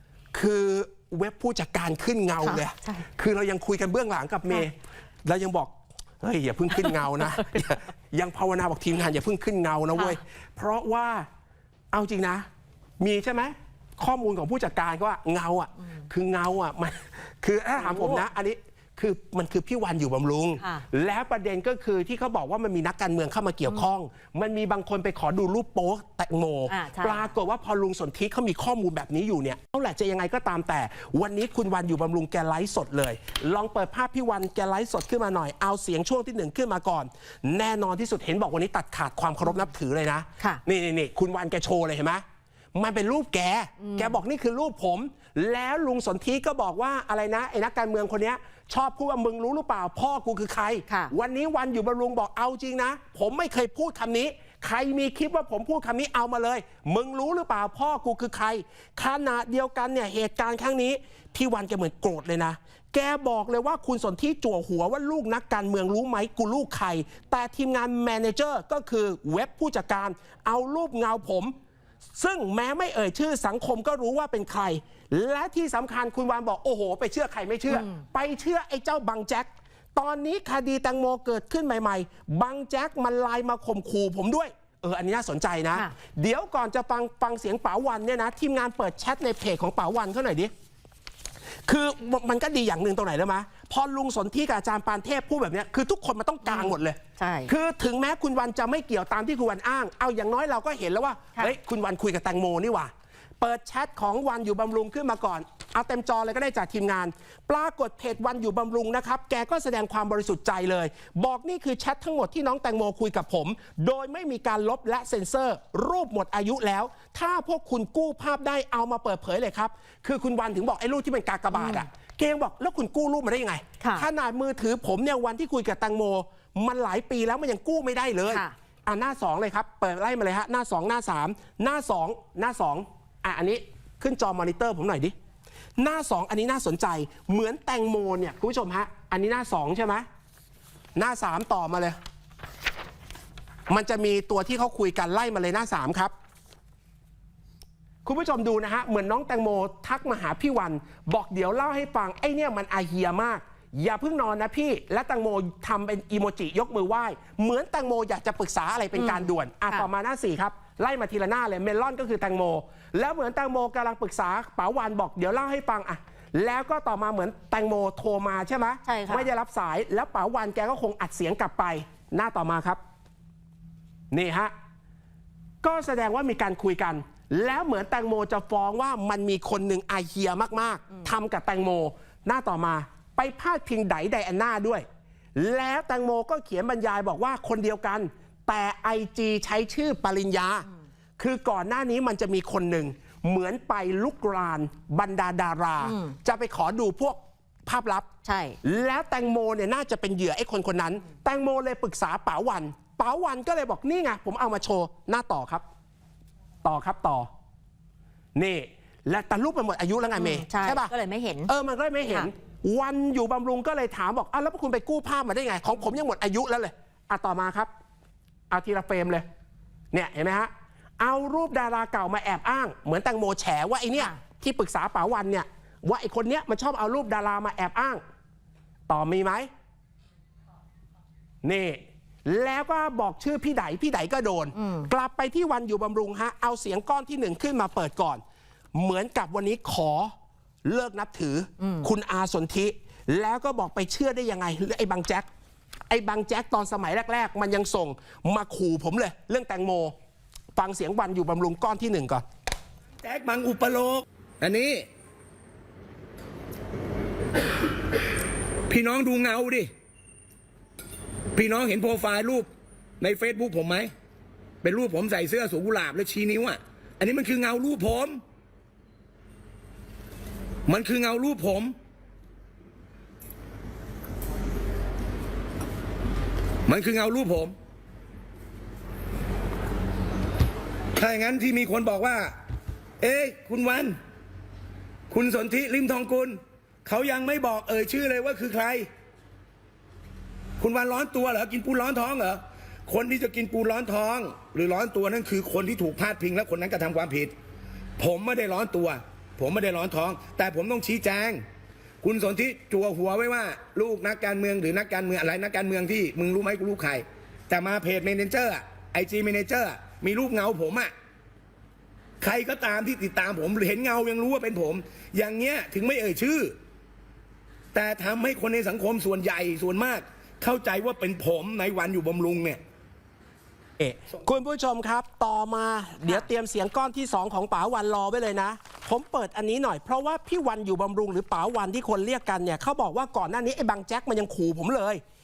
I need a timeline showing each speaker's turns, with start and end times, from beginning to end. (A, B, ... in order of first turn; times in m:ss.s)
0:00.3-0:11.3 A
0:11.9-0:12.5 A
0:13.0-0:42.2 A
0:17.8-0:18.2 B
0:20.6-0:20.9 B
0:26.7-0:27.3 B
0:42.8-1:11.6 A
0:43.8-0:44.2 B
0:50.9-0:51.1 B
1:12.2-1:30.5 A
1:17.7-1:18.0 B
1:31.7-2:15.2 A
1:36.4-1:37.5 B
2:01.5-2:01.8 B
2:03.8-2:04.1 B
2:08.3-2:08.5 B
2:15.8-2:20.1 A
2:21.0-2:22.0 A
2:23.7-2:26.1 A
2:28.0-2:52.8 A
2:39.0-2:39.9 B
2:48.8-2:49.3 B
2:54.1-2:54.5 A
2:55.6-3:10.7 A
3:11.2-3:18.1 A
3:15.8-3:16.2 B
3:18.2-3:18.6 B
3:18.6-3:25.6 A
3:26.6-3:27.3 A
3:28.4-3:30.9 A
3:30.2-3:31.5 B
3:31.5-3:37.7 A
3:38.5-3:39.3 A
3:39.9-3:48.0 A
3:48.9-3:49.5 A
3:51.4-3:58.2 A
3:54.6-3:54.9 B
3:58.7-4:00.1 A
4:00.6-4:05.3 A
4:01.6-4:01.9 B
4:05.9-4:10.0 A
4:10.6-4:12.2 A
4:13.0-4:14.9 C
4:18.7-4:19.7 C
4:21.3-4:23.9 C
4:24.6-4:28.2 C
4:30.7-4:31.8 C
4:36.7-4:37.6 C
4:41.0-4:42.4 C
4:43.0-4:44.0 C
4:45.1-4:48.9 C
4:50.6-4:57.3 C
4:58.0-5:01.5 C
5:02.0-5:10.9 C
5:12.2-5:16.6 C
5:17.7-5:22.6 C
5:23.8-5:35.0 A